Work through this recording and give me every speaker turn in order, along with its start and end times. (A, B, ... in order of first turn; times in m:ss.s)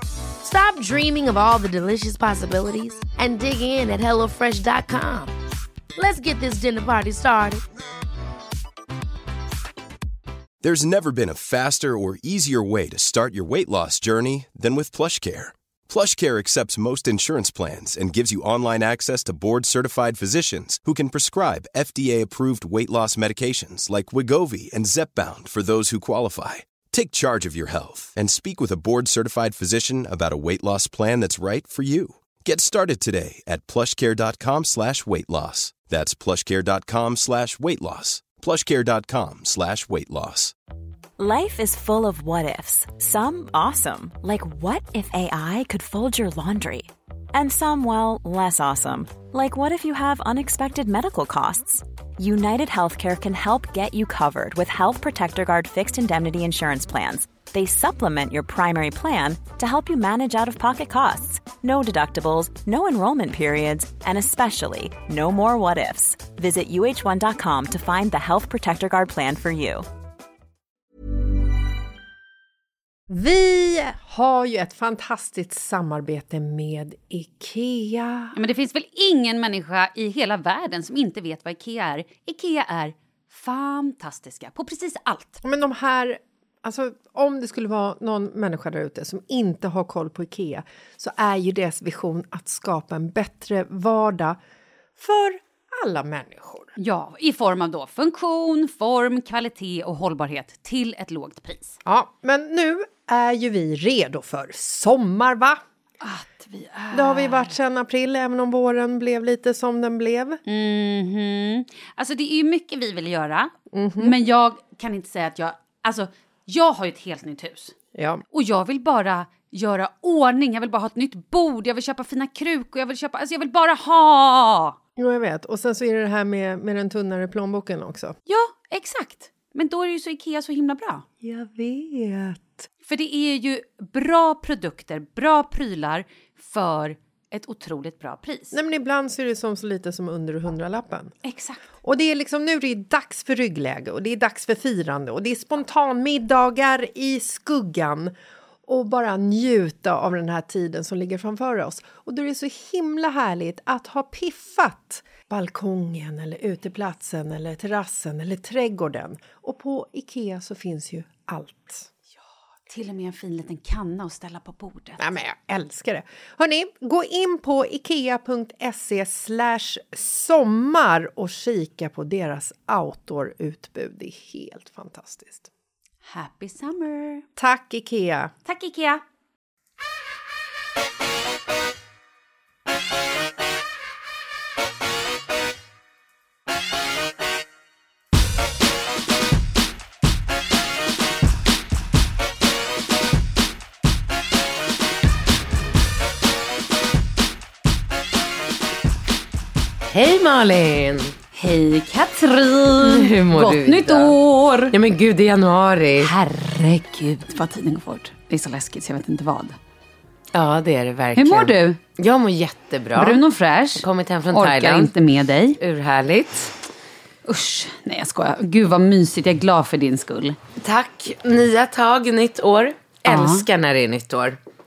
0:00.4-0:05.3 A
0:06.0-0:07.6 A
0:10.6-0:40.5 B
0:41.2-1:09.8 C
1:13.1-1:18.3 D
1:18.3-1:25.4 E
1:25.4-1:34.4 D
1:35.0-1:36.7 D
1:36.8-1:41.8 E
1:41.8-1:45.6 D
1:46.0-1:47.5 E
1:46.9-1:50.4 D
1:50.4-1:57.7 E
1:53.7-1:54.2 D
1:58.0-1:58.2 D
1:58.3-2:04.8 E
2:05.0-2:08.2 D
2:08.3-2:11.0 E
2:11.2-2:12.7 D
2:12.9-2:18.6 E
2:18.5-2:21.1 D
2:21.2-2:21.6 E
2:21.8-2:28.1 D
2:28.7-2:41.9 D
2:42.7-2:45.0 E
2:45.0-2:55.5 D
2:56.0-2:57.2 E
2:57.4-2:58.3 D
2:58.4-2:59.0 E
3:19.8-3:21.1 F
3:21.3-3:24.7 E
3:22.8-3:24.1 F
3:24.7-3:26.1 F
3:26.0-3:29.6 E
3:30.3-3:33.2 F
3:31.2-3:31.8 E
3:32.9-3:35.6 E
3:33.8-3:34.9 F
3:35.6-3:36.5 F
3:37.2-3:40.4 E
3:40.6-3:44.4 F
3:43.1-3:43.4 E